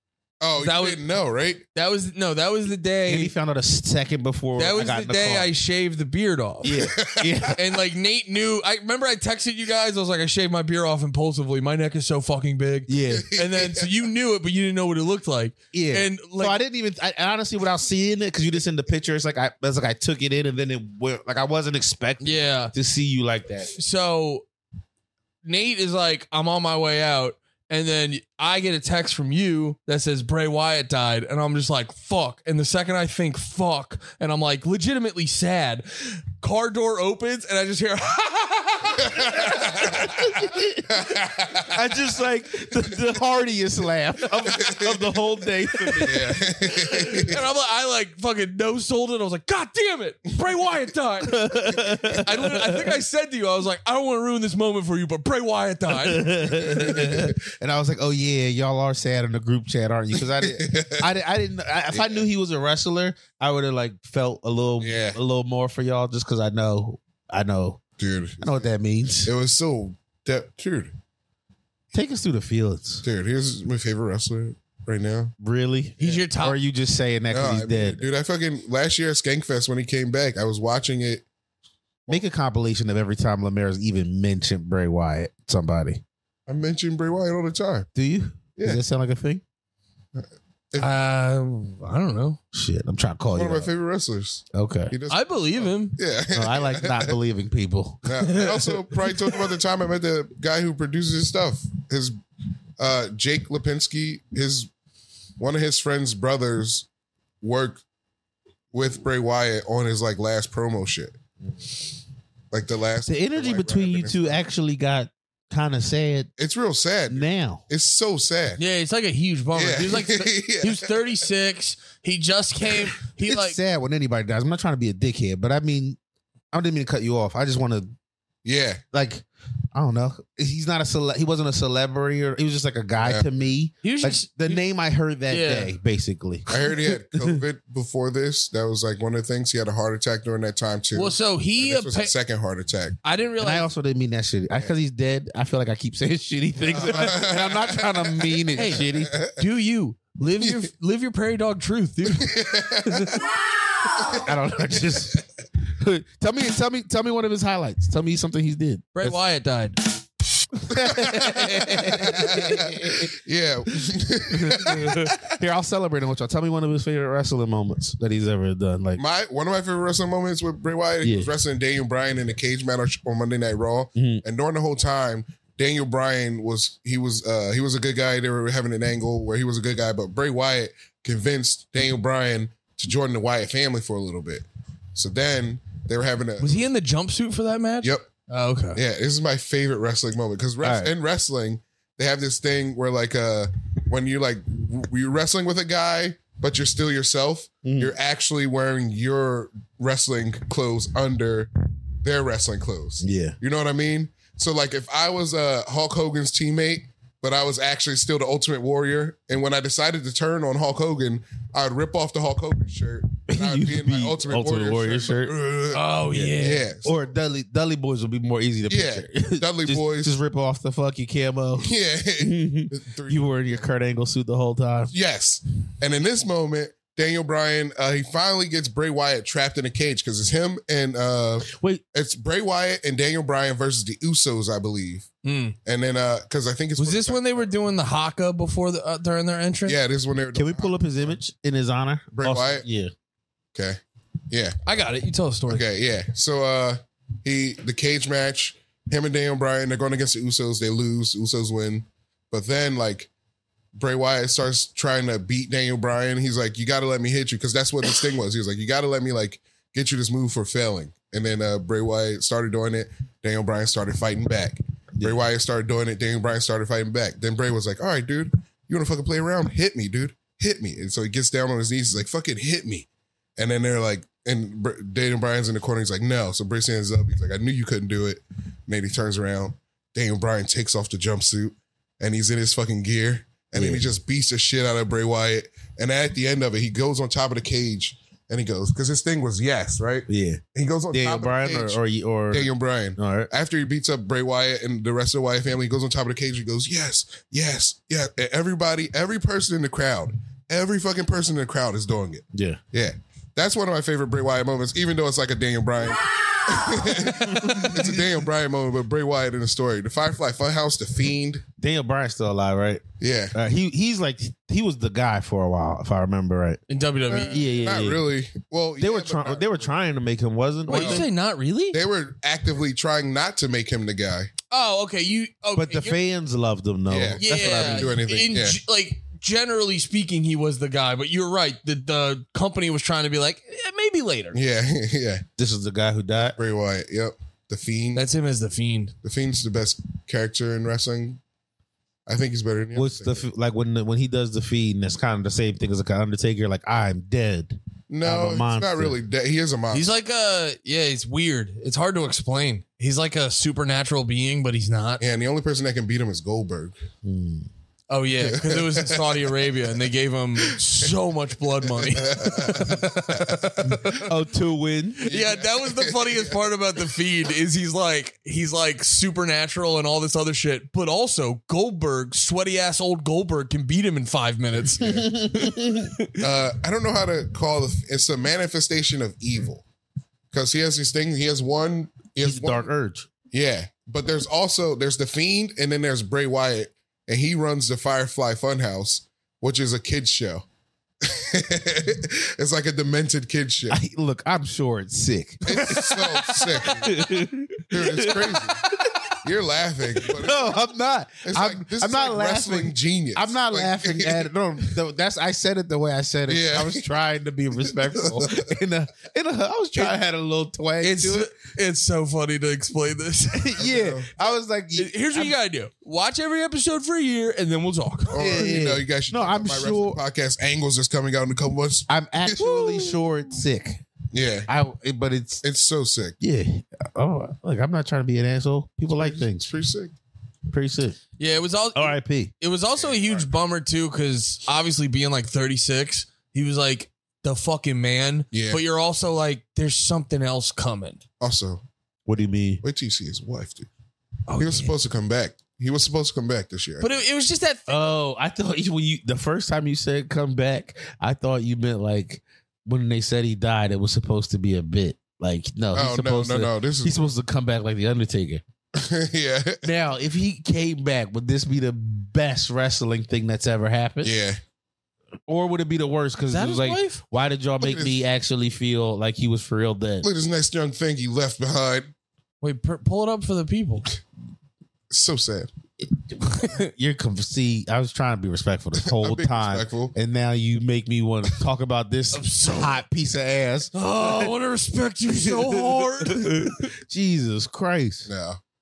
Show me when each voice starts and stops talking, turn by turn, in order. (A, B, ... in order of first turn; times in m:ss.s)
0:00.4-0:01.6 A
0:00.6-0:01.0 B
0:01.7-0:03.3 B
0:03.1-0:05.5 C
0:04.6-0:06.8 B
0:06.6-0:07.6 C
0:06.7-0:07.5 A
0:07.5-0:16.6 B
0:12.9-0:13.3 C
0:13.2-0:13.9 A
0:15.7-0:23.7 C
0:22.2-0:22.7 B
0:23.8-0:24.4 B
0:25.4-0:40.3 B
0:39.1-0:40.2 A
0:39.6-0:47.2 C
0:40.9-0:41.7 A
0:44.4-0:45.1 A
0:46.0-0:47.4 A
0:46.8-0:56.9 B
0:51.2-0:52.9 C
0:55.9-1:07.8 C
0:56.7-0:57.3 A
1:00.3-1:01.1 A
1:01.9-1:02.2 A
1:04.8-1:05.2 A
1:08.0-1:08.7 A
1:08.4-1:09.3 C
1:09.2-1:10.9 A
1:11.9-1:13.0 C
1:13.0-1:15.3 A
1:15.4-1:18.0 C
1:16.0-1:16.6 B
1:17.3-1:21.2 A
1:22.1-1:26.0 C
1:26.5-1:27.9 A
1:27.9-1:29.4 C
1:30.2-1:30.9 A
1:30.8-1:32.4 B
1:32.5-1:33.7 C
1:33.3-1:37.2 A
1:34.5-1:34.9 C
1:35.1-1:36.0 B
1:36.3-1:38.7 C
1:38.0-1:42.2 A
1:42.8-1:44.7 A
1:45.4-1:46.9 A
1:47.4-1:47.8 A
1:48.7-1:51.1 A
1:52.5-1:54.4 A
1:53.1-1:56.3 C
1:56.4-1:58.6 A
1:57.1-1:57.6 C
1:58.6-2:03.6 B
1:59.5-2:01.1 A
2:03.2-2:06.0 C
2:06.5-2:07.9 C
2:08.4-2:08.8 A
2:08.9-2:17.4 C
2:13.0-2:13.3 A
2:13.8-2:14.6 B
2:15.3-2:15.7 B
2:16.5-2:23.0 A
2:20.9-2:22.1 B
2:23.0-2:23.7 B
2:23.4-2:29.1 C
2:26.6-2:29.4 A
2:28.5-2:32.4 B
2:32.1-2:33.2 A
2:32.9-2:33.2 C
2:34.1-2:39.2 C
2:38.9-2:39.8 B
2:40.5-2:43.1 C
2:40.8-2:45.3 A
2:41.1-2:42.4 B
2:44.3-2:49.0 C
2:49.0-3:06.7 A
2:51.0-2:51.3 C
2:54.0-2:54.2 C
3:06.4-3:08.8 B
3:08.7-3:21.5 A
3:10.6-3:10.9 C
3:17.6-3:17.9 C
3:22.0-3:35.8 A
3:23.0-3:23.4 C
3:33.3-3:35.3 C
3:35.7-3:36.6 B
3:36.1-3:44.9 C
3:36.4-3:37.1 A
3:38.7-3:40.2 A
3:41.6-3:43.7 A
3:44.9-3:55.1 A
3:51.4-3:51.8 C
3:55.2-3:55.5 B
3:55.6-3:57.5 A
3:56.8-3:59.8 B
3:59.6-4:01.1 A
4:00.3-4:02.9 C
4:02.1-4:02.6 A
4:04.3-4:04.6 A
4:04.6-4:05.6 B
4:05.5-4:13.1 A
4:13.7-4:51.8 A
4:43.5-4:43.8 C
4:50.1-4:53.3 C
4:52.3-5:11.4 A
5:02.3-5:02.6 C
5:07.0-5:08.0 C
5:11.6-5:12.8 C
5:13.0-5:13.4 A
5:13.3-5:16.6 C
5:16.7-5:17.5 B
5:17.1-5:19.7 A
5:17.3-5:18.0 C
5:18.8-5:21.0 C
5:20.7-5:21.8 B
5:20.7-5:21.0 A
5:21.7-5:24.3 A
5:24.5-5:26.0 B
5:25.6-5:28.0 C
5:26.9-5:28.6 A
5:27.2-5:34.4 B
5:34.3-5:35.2 A
5:35.4-5:36.4 C
5:36.3-5:38.0 A
5:37.9-5:38.9 B
5:39.0-5:41.2 A
5:42.1-5:43.2 A
5:42.7-5:49.0 C
5:47.9-5:49.9 A
5:49.7-5:55.0 B
5:55.0-5:56.8 A
5:57.0-5:57.5 C
5:57.9-6:04.0 B
5:58.2-5:59.3 A
6:01.8-6:03.8 A
6:03.6-6:05.0 C
6:05.0-6:16.1 B
6:05.0-6:06.4 A
6:14.8-6:15.1 A
6:14.8-6:16.0 C
6:16.2-6:19.6 A
6:20.3-6:22.7 A
6:22.2-6:23.1 C
6:23.3-6:30.4 A
6:31.0-6:33.8 A
6:33.7-6:39.1 C
6:35.4-6:37.1 A
6:37.7-6:38.6 A
6:39.2-6:40.6 A
6:40.0-6:51.3 C
6:41.2-6:44.7 A
6:46.3-6:46.9 A
6:47.7-6:48.5 A
6:50.8-6:53.6 B
6:53.3-6:55.4 C
6:53.6-6:54.1 A
6:54.7-6:58.2 B
6:58.1-7:02.9 A
6:58.1-7:00.0 C
7:01.9-7:03.8 C
7:04.1-7:04.5 A
7:04.5-7:05.4 C
7:05.4-7:06.2 A
7:06.2-7:09.4 C
7:08.9-7:09.9 A
7:10.5-7:11.0 C
7:11.2-7:21.0 B
7:11.8-7:12.3 C
7:12.7-7:13.3 A
7:18.3-7:18.6 A
7:21.2-7:21.6 A
7:22.0-7:22.6 C
7:22.6-7:23.7 A
7:24.3-7:24.7 B
7:24.4-7:27.0 A
7:26.8-7:27.9 B
7:27.7-7:38.4 C
7:35.7-7:37.0 A
7:38.7-7:39.7 A
7:39.6-7:44.1 C
7:44.0-7:44.4 A
7:45.3-7:50.1 C
7:46.3-7:47.0 B
7:47.6-7:48.0 A
7:50.0-7:51.9 A
7:52.4-7:53.9 B
7:54.9-7:55.5 A
7:56.1-8:04.3 C
7:56.3-7:56.7 B
7:58.8-7:59.9 A
8:02.1-8:02.8 B
8:03.7-8:06.6 B
8:05.1-8:08.1 C
8:08.1-8:08.4 A